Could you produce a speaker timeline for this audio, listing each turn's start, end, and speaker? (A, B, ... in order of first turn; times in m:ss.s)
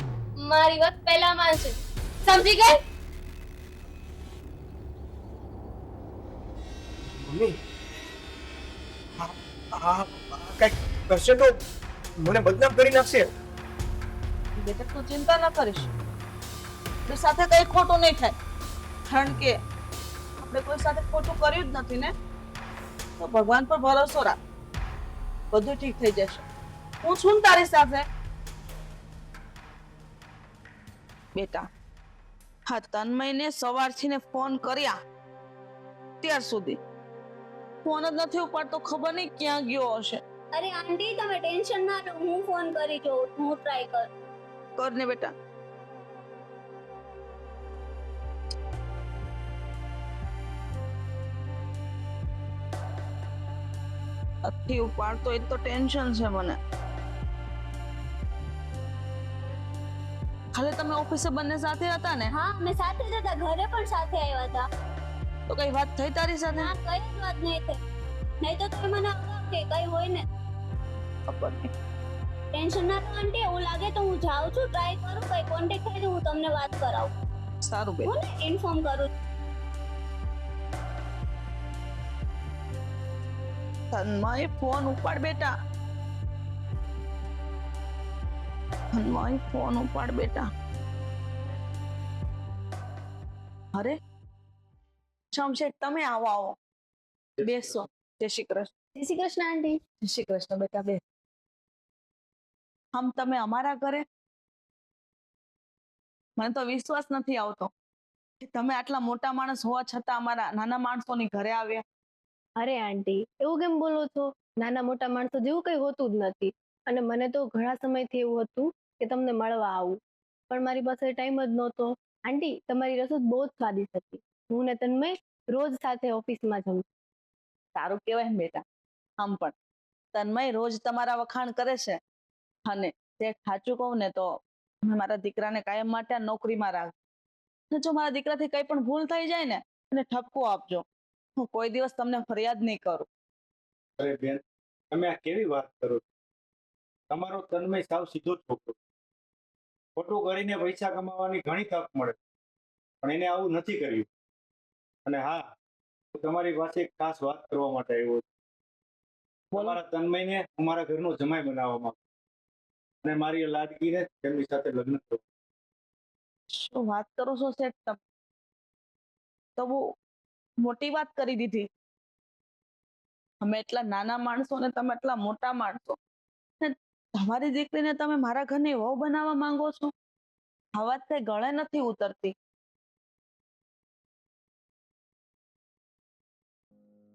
0:00.4-0:02.8 A
0:07.2-0:07.6 B
0:09.2-0:11.6 B
0:12.2-0:13.3 B
0:14.6-0:15.9 C
0:17.1-0:18.4 C
0:19.1-0:19.6 C
0:20.4-0:22.1 C
0:23.2-0:24.4 C
0:25.5-0:26.4 C
0:27.0-0:28.1 C
0:31.4-0:31.7 C
0:32.7-0:35.0 C
0:36.2-0:36.8 C
0:37.8-0:40.2 C
0:40.5-0:44.1 D
0:44.8-0:45.3 C
0:54.4-0:56.6 C
1:00.6-1:02.3 C
1:02.3-1:04.7 D
1:05.5-1:06.7 C
1:06.6-1:07.8 D
1:08.4-1:10.2 D
1:11.3-1:11.7 C
1:12.5-1:17.1 D
1:17.6-1:18.1 C
1:18.0-1:19.1 D
1:23.9-1:25.5 C
1:29.0-1:30.5 C
1:35.3-1:36.6 C
1:37.4-1:38.7 C
1:39.0-1:39.8 E
1:40.0-1:41.0 C
1:43.0-1:44.0 C
1:46.4-1:47.7 C
1:48.4-1:51.8 C
1:52.6-2:00.0 E
2:00.5-2:06.8 E
2:07.8-2:08.6 C
2:09.2-2:09.5 C
2:10.1-2:12.0 C
2:12.7-2:16.9 C
2:17.7-2:20.8 C
2:21.4-2:23.1 C
2:24.0-2:26.1 F
2:27.1-2:28.8 F
2:30.0-2:32.2 F
2:33.0-2:34.1 F
2:35.1-2:35.5 F
2:36.1-2:38.2 F
2:39.6-2:42.0 F
2:43.0-2:45.2 F
2:46.5-2:48.0 C
2:49.6-2:49.8 C
2:50.6-2:51.7 C
2:53.4-2:56.0 C
2:56.6-2:59.9 C
3:00.8-3:02.4 C